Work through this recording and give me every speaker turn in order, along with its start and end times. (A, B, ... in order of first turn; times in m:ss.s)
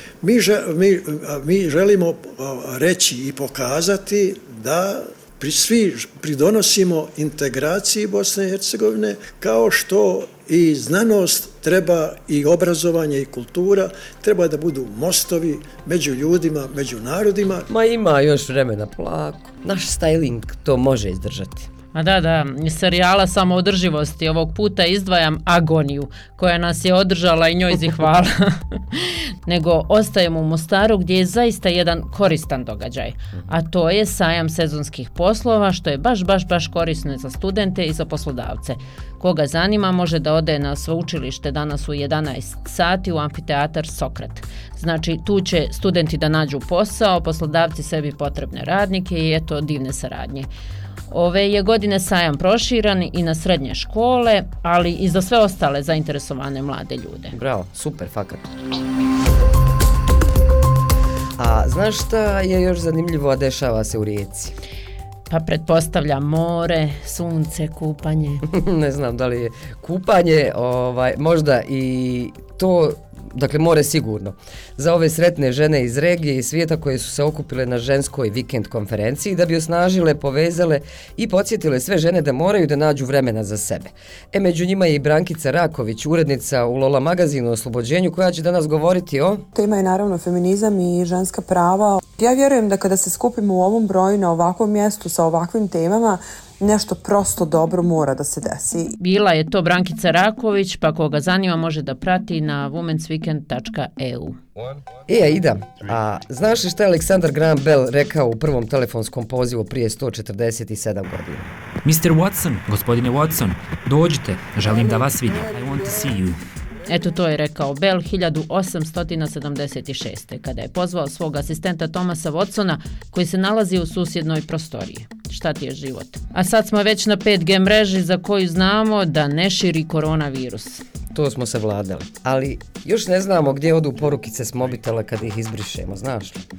0:00.2-0:17.7 A
0:17.7-0:21.7 B
0:21.9-0:50.5 C
0:51.1-0:57.3 C
0:57.3-0:58.4 B
1:01.4-1:04.5 B
1:05.3-1:08.4 C
1:08.5-1:29.4 B
1:29.5-1:38.9 D
1:39.0-1:44.4 C
1:45.1-1:51.5 B
1:51.8-1:56.4 E
1:56.8-2:10.8 C
2:11.1-2:16.4 B